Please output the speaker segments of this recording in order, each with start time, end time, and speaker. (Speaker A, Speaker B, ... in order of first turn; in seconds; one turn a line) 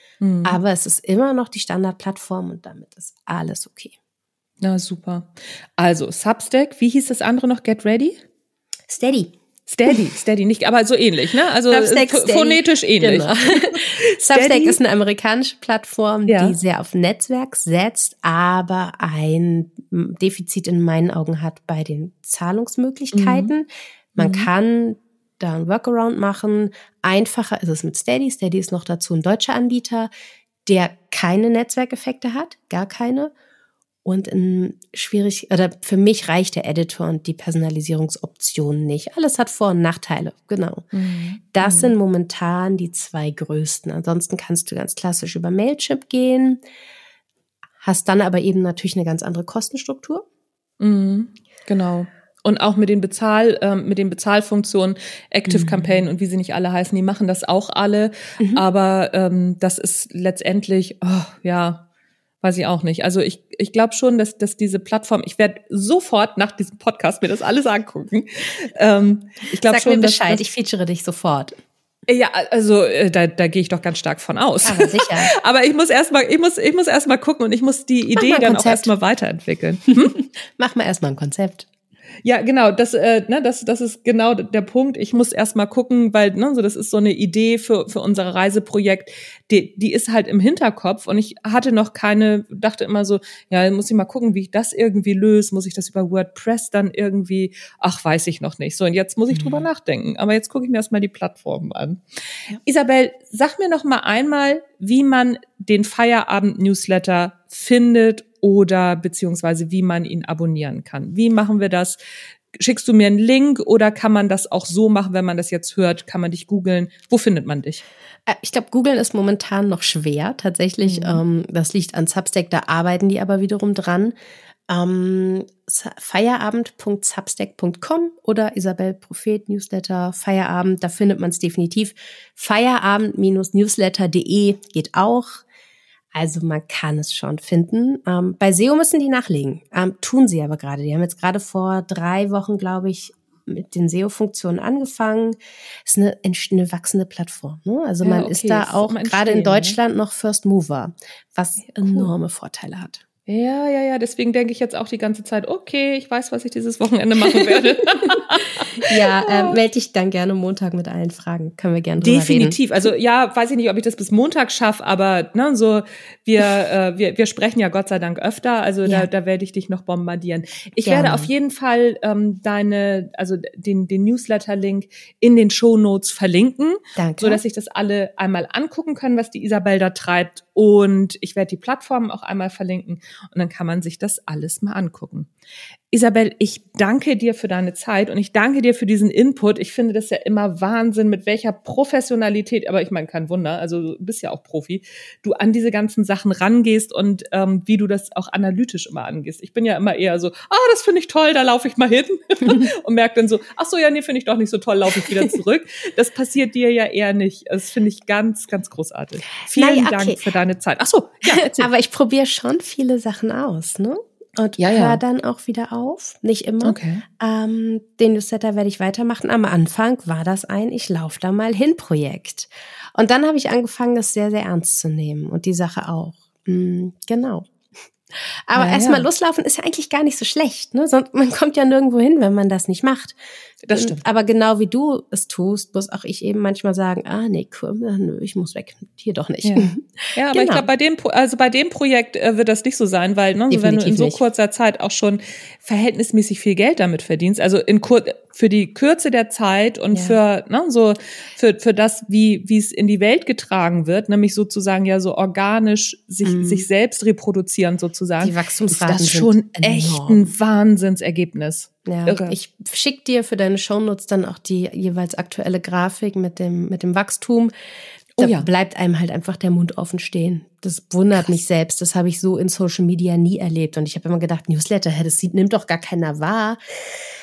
Speaker A: 0.2-0.6
Speaker B: 0.4-3.9
Speaker A: 4.6-8.2
Speaker B: 8.9-9.3
Speaker A: 9.7-14.8
Speaker B: 11.7-30.1
Speaker A: 16.3-16.6
Speaker A: 23.1-23.5
Speaker A: 24.2-24.5
Speaker B: 30.7-33.3
Speaker B: 34.0-40.9
Speaker A: 40.9-41.9
Speaker B: 41.5-46.6
Speaker B: 47.8-50.2
Speaker A: 50.8-61.8
Speaker B: 55.5-56.0
Speaker A: 62.4-70.4
Speaker B: 69.6-71.5
Speaker A: 72.1-80.2
Speaker B: 74.6-75.3
Speaker B: 78.1-78.9
Speaker B: 80.1-81.7
Speaker A: 82.2-102.0
Speaker B: 99.3-99.7
Speaker A: 102.6-112.0
Speaker A: 112.5-117.8
Speaker B: 118.3-124.2
Speaker A: 120.8-121.2
Speaker B: 124.7-135.4
Speaker B: 136.1-153.0
Speaker A: 148.0-149.8
Speaker A: 151.8-152.1
Speaker A: 153.3-159.6
Speaker B: 157.3-158.2
Speaker B: 158.8-162.6
Speaker A: 162.0-185.3
Speaker B: 170.8-171.3
Speaker B: 177.0-177.4
Speaker A: 185.9-211.7
Speaker B: 205.0-205.3
Speaker B: 209.5-210.2
Speaker B: 211.2-227.5
Speaker A: 214.6-215.0
Speaker A: 216.6-217.0
Speaker B: 228.1-233.2
Speaker A: 228.5-229.1
Speaker A: 233.6-234.0
Speaker B: 233.7-240.7
Speaker A: 239.4-262.4
Speaker B: 243.5-244.2
Speaker B: 249.9-250.2
Speaker B: 256.2-256.6
Speaker B: 258.2-260.3
Speaker B: 261.9-267.5
Speaker A: 268.2-268.5
Speaker B: 268.2-276.6
Speaker A: 271.1-271.4